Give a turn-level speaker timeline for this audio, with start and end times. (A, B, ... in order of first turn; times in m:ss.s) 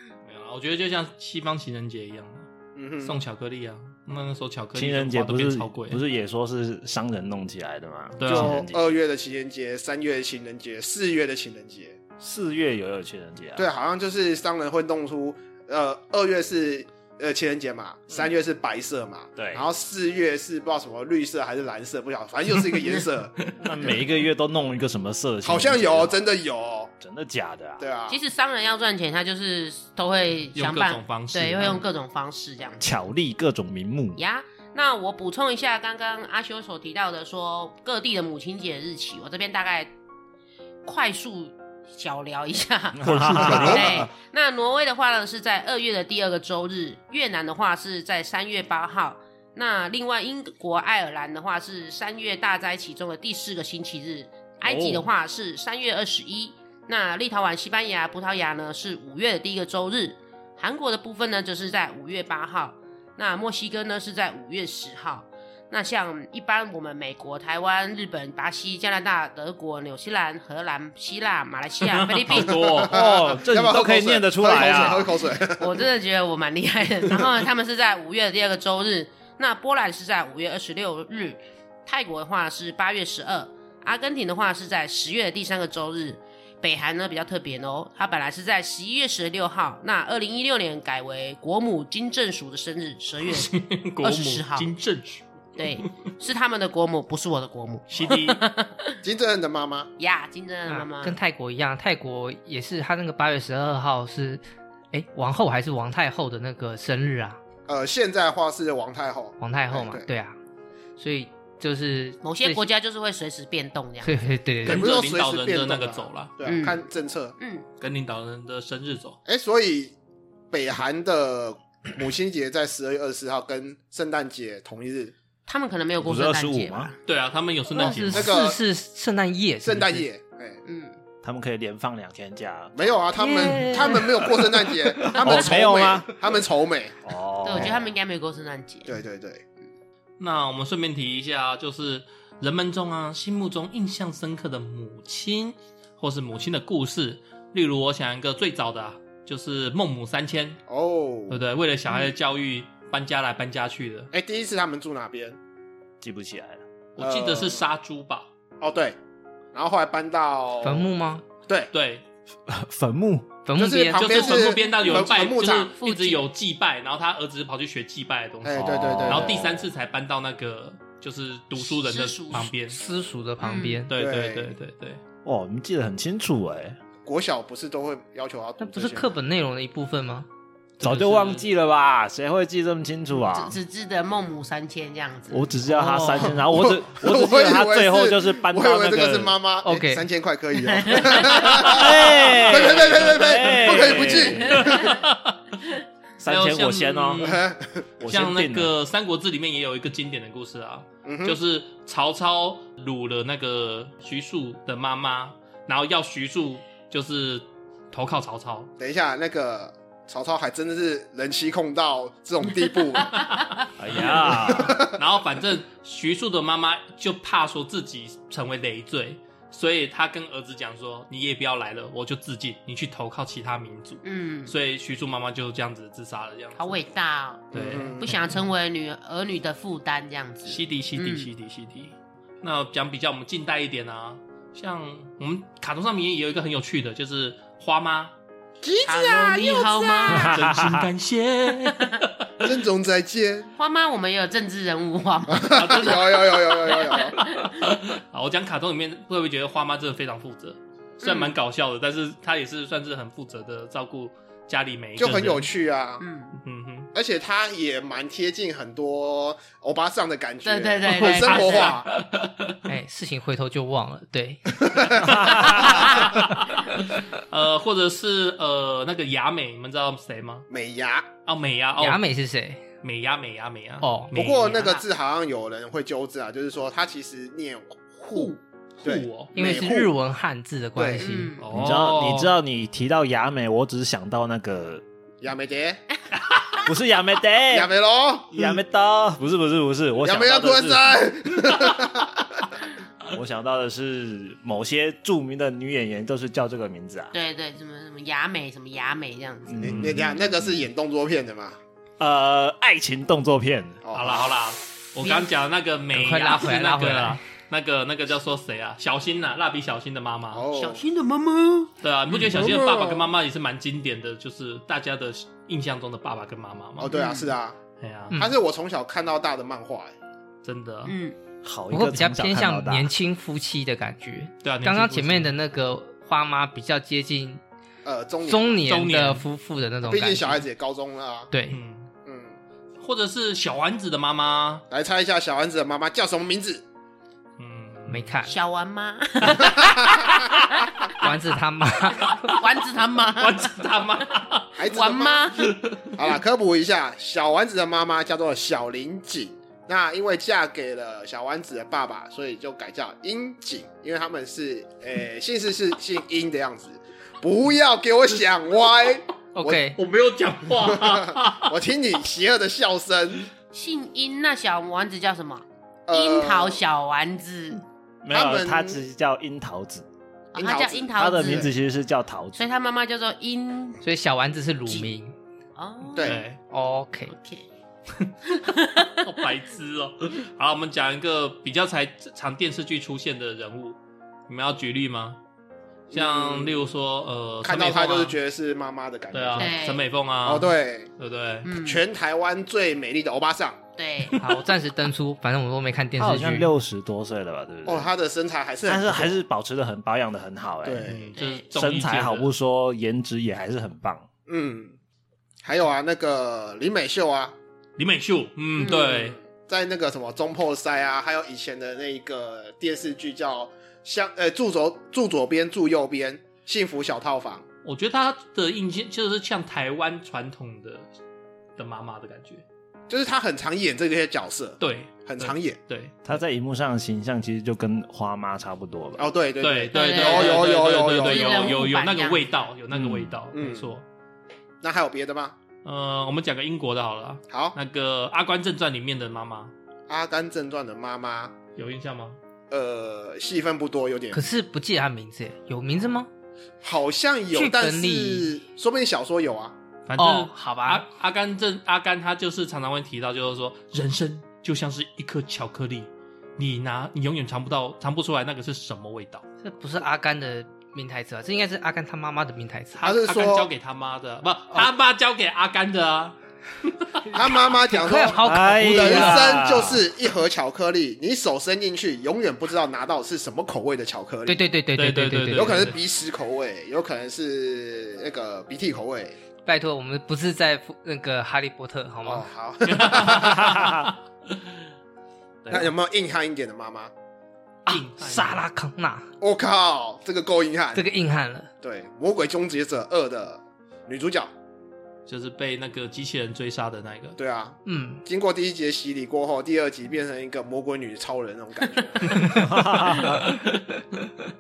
0:00.3-0:02.5 A
0:02.8-0:03.2 B
0:03.0-0:06.0 A
0:04.8-0:08.8 C
0:08.2-0:08.6 A
0:08.3-0:12.0 B
0:12.2-0:13.7 C
0:13.6-0:23.4 B
0:19.4-0:19.6 C
0:23.6-0:26.1 C
0:25.4-0:26.9 B
0:27.0-0:27.8 C
0:27.8-0:28.2 B
0:28.1-0:33.0 D
0:30.6-0:31.8 A
0:32.8-0:34.2 C
0:34.2-0:39.9 D
0:40.8-1:12.9 D
0:43.0-0:44.1 C
0:43.1-0:43.9 A
0:43.4-0:44.1 B
0:54.6-0:55.1 A
1:11.8-1:13.0 A
1:12.3-1:15.9 B
1:12.9-1:15.1 C
1:14.6-1:34.7 D
1:33.2-1:35.8 A
1:35.6-1:39.0 D
1:37.9-1:38.4 A
1:39.0-1:39.9 B
1:40.0-1:41.2 D
1:40.7-1:44.4 E
1:44.9-1:47.4 E
1:47.7-1:50.1 B
1:49.4-1:50.4 E
1:51.0-1:52.7 E
1:52.2-1:54.3 D
1:54.0-1:55.0 E
1:54.6-1:56.4 A
1:54.6-1:57.4 B
1:56.4-1:56.8 D
1:57.4-1:57.6 D
1:57.8-1:59.2 A
1:59.3-2:00.0 B
2:00.5-2:05.1 B
2:05.5-2:07.0 D
2:06.0-2:06.9 C
2:07.1-2:08.3 A
2:07.7-2:10.0 E
2:07.9-2:08.6 B
2:09.6-2:10.6 B
2:10.6-2:11.0 D
2:11.2-2:16.1 C
2:12.8-2:17.0 B
2:13.2-2:14.0 E
2:15.2-2:15.6 D
2:17.0-2:17.9 C
2:17.4-2:18.9 D
2:18.9-2:19.4 B
2:20.2-2:30.6 A
2:30.7-2:31.4 B
2:31.3-2:34.1 A
2:34.1-2:35.4 B
2:36.0-2:36.6 C
2:37.0-2:38.3 A
2:37.0-2:37.6 B
2:38.6-2:39.0 B
2:39.5-2:40.9 B
2:40.6-2:41.2 E
2:41.7-2:42.0 A
2:42.5-2:43.3 C
2:43.4-2:44.2 E
2:43.6-2:45.7 B
2:44.0-2:52.8 A
2:44.3-2:45.1 D
2:45.8-2:46.2 D
2:48.4-2:49.4 B
2:48.6-2:49.6 C
2:51.6-2:52.5 D
2:52.6-2:53.9 E
2:53.4-2:53.8 D
2:53.6-2:55.0 A
2:53.9-2:54.6 B
2:55.2-2:56.8 C
2:57.0-2:59.1 B
2:58.6-3:00.3 E
3:00.8-3:01.5 A
3:00.8-3:03.6 C
3:03.1-3:05.5 D
3:05.3-3:09.4 C
3:05.7-3:06.3 E
3:06.5-3:14.9 B
3:09.6-3:10.0 E
3:10.6-3:11.7 D
3:11.6-3:14.7 C
3:12.8-3:13.1 A
3:13.7-3:15.0 D
3:14.5-3:15.6 A
3:16.2-3:17.4 C
3:16.2-3:17.4 A
3:17.2-3:17.8 B
3:18.0-3:18.7 C
3:18.1-3:28.7 A
3:21.0-3:21.4 B
3:28.8-3:33.2 B
3:33.8-3:34.9 C
3:34.4-3:35.0 B
3:34.8-3:46.8 A
3:44.0-3:44.5 D
3:46.6-3:51.3 D
3:47.5-3:48.4 A
3:47.5-3:48.2 B
3:50.4-3:58.1 A
3:58.6-4:00.3 B
3:58.9-4:00.4 D
4:00.2-4:02.5 A
4:00.3-4:00.9 C
4:01.6-4:02.0 D
4:02.4-4:03.5 B
4:03.6-4:07.6 D
4:05.3-4:07.2 B
4:05.6-4:06.4 A
4:07.0-4:15.5 A
4:11.0-4:11.3 D
4:15.0-4:16.0 B
4:16.0-4:16.4 D
4:16.4-4:16.9 A
4:16.9-4:21.9 B
4:20.4-4:21.8 D
4:20.9-4:22.6 A
4:22.7-4:25.1 E
4:24.6-4:25.1 B
4:25.0-4:25.8 C
4:25.1-4:30.5 A
4:30.5-4:31.1 B
4:31.3-4:32.0 A
4:31.8-4:32.6 E
4:32.8-4:34.7 A
4:33.8-4:34.1 E
4:34.1-4:39.9 B
4:34.6-4:34.8 D
4:38.1-4:38.4 D
4:38.8-4:39.3 A
4:39.4-4:41.4 E
4:40.8-4:41.1 B
4:41.0-4:41.5 D
4:41.4-4:42.3 A
4:41.5-4:44.8 C
4:45.2-4:45.8 B
4:46.6-4:47.7 C
4:47.5-4:48.4 B
4:48.3-4:50.8 C
4:50.0-4:52.5 B
4:53.1-4:57.1 C
4:57.1-4:59.7 D
4:59.5-5:00.3 C
4:59.6-5:01.6 B
5:02.0-5:03.8 C
5:03.8-5:04.4 B
5:03.9-5:10.5 A
5:05.0-5:05.3 D
5:05.9-5:07.2 E
5:10.3-5:10.8 B
5:10.5-5:12.3 D
5:11.8-5:16.9 A
5:12.2-5:13.1 B
5:16.8-5:17.6 B
5:16.9-5:17.3 D
5:17.8-5:18.2 A
5:18.1-5:20.0 B
5:20.4-5:21.0 A
5:20.9-5:21.2 D
5:21.4-5:22.9 C
5:21.7-5:27.4 E
5:24.4-5:25.3 A
5:27.8-5:28.6 B
5:28.2-5:30.4 E
5:28.7-5:29.2 A
5:29.9-5:31.3 B
5:31.3-5:31.6 E
5:31.5-5:31.9 A
5:32.0-5:32.4 B
5:32.8-5:34.6 A
5:34.7-5:36.6 B
5:37.4-5:38.2 A
5:37.9-5:38.3 E
5:38.3-5:40.9 D
5:39.4-5:40.3 B
5:41.0-5:42.3 E
5:42.2-5:43.6 D
5:43.2-5:44.5 A
5:44.6-5:45.4 B
5:44.6-5:45.5 D
5:45.4-5:46.0 A
5:45.9-5:59.6 B
5:59.4-5:59.8 E
5:59.8-6:01.6 A
6:00.6-6:03.3 B
6:03.5-6:07.6 D
6:05.9-6:06.6 B
6:08.0-6:09.9 C
6:08.1-6:08.8 B
6:10.3-6:11.5 D
6:10.4-6:11.5 B
6:10.9-6:12.4 C
6:12.4-6:13.8 D
6:13.8-6:15.2 E
6:15.6-6:16.2 D
6:16.0-6:16.2 B
6:16.0-6:16.4 A
6:16.5-6:17.1 E
6:17.1-6:17.5 D
6:18.3-6:18.9 D
6:19.0-6:23.8 A
6:24.3-6:25.2 A
6:25.9-6:26.7 B
6:25.9-6:28.2 A
6:27.4-6:29.6 B
6:29.1-6:31.5 A
6:29.4-6:29.8 D
6:30.2-6:30.9 B
6:31.4-6:31.8 D
6:31.6-6:33.6 B
6:33.8-6:34.2 D
6:34.2-6:36.5 E
6:36.0-6:37.9 C
6:37.6-6:39.2 B
6:38.7-6:40.9 C
6:40.6-6:41.2 B
6:40.8-6:42.3 A
6:41.2-6:41.4 D
6:41.5-6:44.1 C
6:44.3-6:44.8 B
6:45.4-6:47.4 B
6:47.8-6:49.2 A
6:48.6-6:49.0 D
6:48.7-6:57.4 B
6:57.6-7:00.9 A
7:01.6-7:02.4 A
7:02.9-7:05.6 B
7:04.6-7:06.0 A
7:06.0-7:09.1 C
7:09.0-7:11.6 B
7:09.4-7:13.8 A
7:09.7-7:12.4 D
7:12.7-7:13.1 C
7:13.3-7:13.7 B
7:14.6-7:15.4 B
7:15.6-7:19.5 A
7:17.3-7:17.6 B
7:19.9-7:21.3 B
7:21.6-7:22.2 A
7:22.5-7:24.2 B
7:24.1-7:26.1 E
7:26.6-7:29.6 B
7:27.3-7:28.3 E
7:29.9-7:39.2 A
7:30.0-7:30.8 E
7:39.4-7:42.8 E
7:42.8-7:46.2 A
7:42.8-7:43.5 B
7:46.7-7:47.0 A
7:47.1-7:54.4 B
7:47.6-7:49.4 E
7:48.2-7:49.8 C
7:54.3-7:55.7 E
7:54.8-7:55.8 A
7:55.3-7:59.2 B
7:59.5-8:02.3 E
8:02.0-8:03.6 B
8:02.7-8:04.4 A
8:03.5-8:03.8 C
8:05.5-8:06.9 B
8:07.7-8:09.1 E
8:07.7-8:08.4 A
8:09.2-8:10.8 B
8:10.8-8:11.5 E
8:11.6-8:14.3 B
8:15.1-8:17.2 A
8:17.2-8:22.3 B
8:17.7-8:18.0 E
8:22.3-8:23.2 C
8:23.0-8:23.6 A